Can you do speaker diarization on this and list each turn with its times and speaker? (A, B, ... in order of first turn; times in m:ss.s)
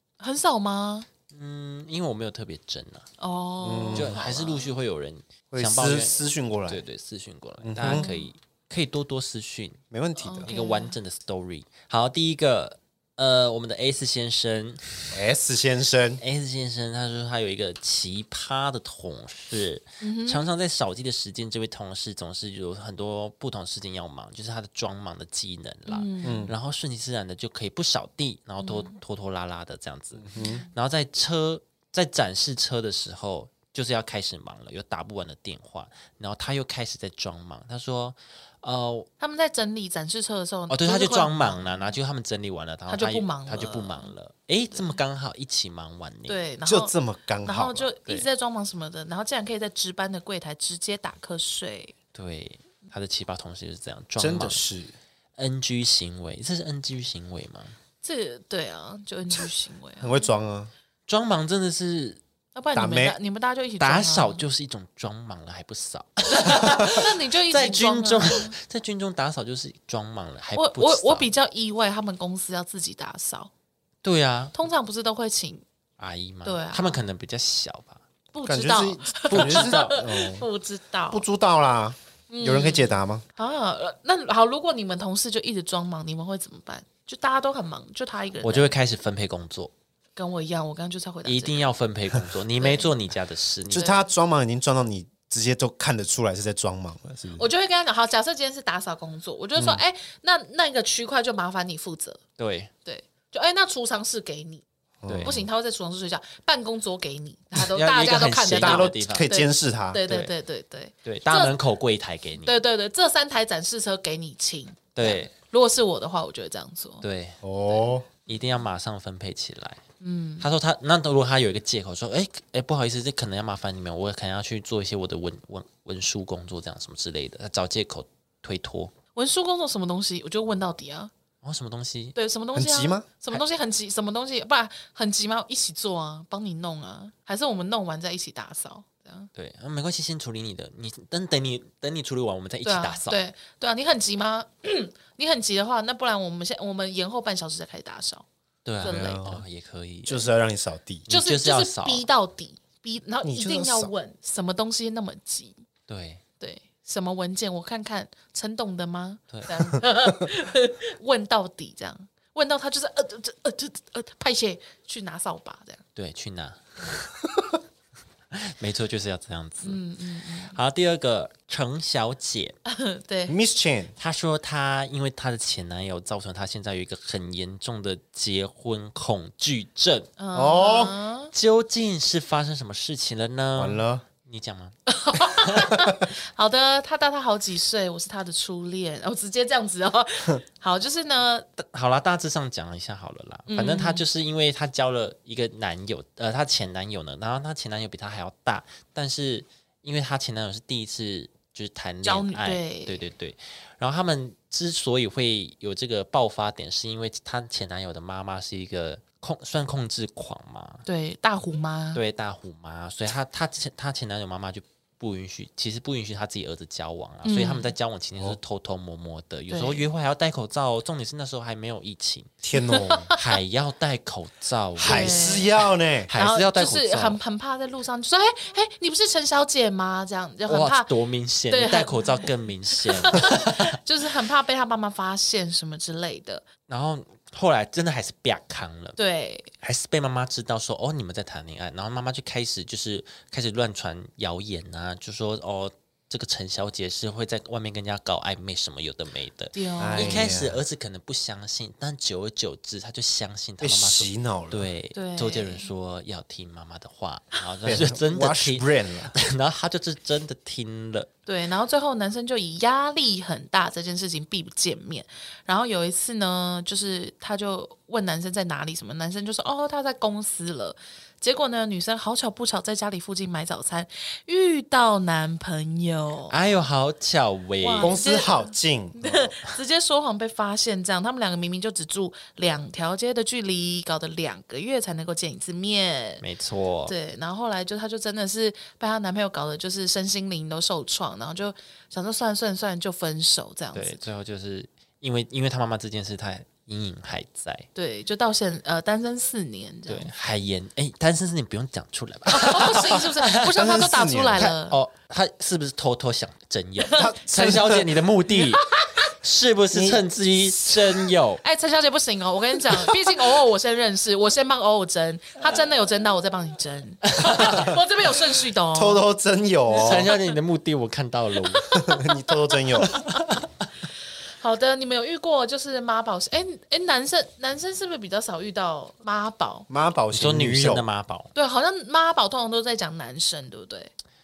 0:00.2-0:01.1 A
0:01.3-0:03.1 B
0:03.2-0:04.7 A
0:03.6-0:04.2 C
0:03.9-0:09.8 B
0:05.5-0:06.8 C
0:07.6-0:08.1 C
0:07.8-0:08.3 A
0:09.9-0:10.5 C
0:10.2-0:10.9 A
0:10.4-0:15.2 B
0:15.1-0:16.2 C
0:16.2-0:39.1 B
0:20.0-0:20.4 A
0:25.9-0:26.5 A
0:26.2-0:26.5 C
0:28.6-0:28.9 A
0:30.2-0:30.6 C
0:30.4-0:30.7 A
0:39.2-0:41.9 A
0:40.7-0:46.4 B
0:42.9-0:44.1 A
0:44.7-0:45.0 A
0:46.3-0:52.0 A
0:46.6-0:47.9 C
0:52.1-0:54.6 B
0:54.2-0:54.9 C
0:55.4-0:57.8 B
0:58.0-1:00.3 A
1:00.0-1:00.7 C
1:01.1-1:02.2 B
1:02.5-1:04.4 A
1:02.7-1:03.2 C
1:03.8-1:11.3 B
1:06.3-1:08.5 A
1:10.6-1:13.5 A
1:14.0-1:14.6 B
1:14.5-1:15.6 A
1:16.0-1:18.0 B
1:16.4-1:17.0 A
1:18.3-1:21.2 A
1:18.4-1:20.5 C
1:19.3-1:20.0 B
1:21.1-1:23.2 C
1:22.3-1:28.7 A
1:28.4-1:29.7 B
1:30.2-1:31.7 A
1:31.2-1:33.9 B
1:32.6-1:32.9 A
1:33.7-1:37.5 C
1:33.7-1:34.0 A
1:37.4-1:42.2 A
1:39.6-1:39.8 C
1:42.4-1:42.7 B
1:42.8-1:44.6 A
1:45.0-1:45.4 C
1:45.1-1:45.4 B
1:45.2-1:51.6 A
1:47.6-1:49.3 B
1:48.5-1:50.1 C
1:51.0-1:52.5 B
1:52.4-1:57.0 A
1:54.9-1:55.3 B
1:57.0-1:59.8 B
1:57.4-1:58.1 C
2:00.0-2:00.5 A
2:00.4-2:08.9 B
2:09.1-2:11.1 A
2:11.4-2:12.2 B
2:12.1-2:19.3 A
2:12.5-2:13.4 C
2:19.3-2:23.2 B
2:22.6-2:28.2 A
2:28.6-2:30.3 B
2:28.8-2:29.3 A
2:28.8-2:29.4 C
2:30.0-2:31.1 C
2:31.1-2:32.1 B
2:31.1-2:35.6 A
2:33.2-2:33.9 C
2:35.9-2:36.2 B
2:36.4-2:45.8 A
2:39.3-2:39.6 B
2:46.0-2:47.2 B
2:48.3-2:49.8 B
2:49.6-2:50.6 A
2:50.5-2:52.6 B
2:52.6-2:53.4 A
2:53.3-2:53.9 C
2:54.0-3:00.1 B
3:00.2-3:01.3 A
3:00.3-3:01.0 C
3:01.3-3:04.7 B
3:03.6-3:04.0 C
3:04.9-3:11.4 A
3:11.6-3:30.8 B
3:13.5-3:14.0 A
3:22.0-3:23.0 A
3:30.8-3:32.0 A
3:31.9-3:42.3 B
3:37.2-3:37.7 A
3:39.5-3:39.8 A
3:42.4-3:43.1 C
3:42.5-3:43.2 A
3:43.2-3:45.5 B
3:44.8-3:46.1 C
3:44.8-3:45.5 A
3:46.0-3:47.2 B
3:46.1-3:50.9 A
3:50.4-3:53.8 B
3:51.5-3:52.2 A
3:52.8-3:56.4 A
3:56.7-3:59.0 B
3:59.0-3:59.5 A
3:59.6-4:21.1 B
4:09.5-4:10.4 A
4:09.8-4:10.6 C
4:13.6-4:14.7 C
4:14.9-4:15.7 A
4:17.6-4:19.2 C
4:21.2-4:36.4 A
4:36.3-4:37.9 B
4:37.6-4:46.2 A
4:37.8-4:39.3 C
4:46.2-4:46.9 B
4:46.8-4:54.0 A
4:53.7-4:57.7 B
4:57.7-5:00.1 A
4:59.9-5:03.5 B
5:02.3-5:04.8 A
5:03.4-5:04.5 C
5:04.3-5:11.4 B
5:06.8-5:07.1 A
5:06.9-5:08.0 C
5:08.3-5:09.0 A
5:09.7-5:11.1 C
5:11.4-5:19.0 A
5:17.2-5:17.6 B
5:18.7-5:20.1 C
5:19.7-5:21.9 B
5:21.6-5:23.0 C
5:21.8-5:23.4 A
5:22.8-5:23.4 B
5:24.4-5:29.7 A
5:29.7-5:30.8 C
5:30.1-5:31.3 B
5:31.3-5:33.9 A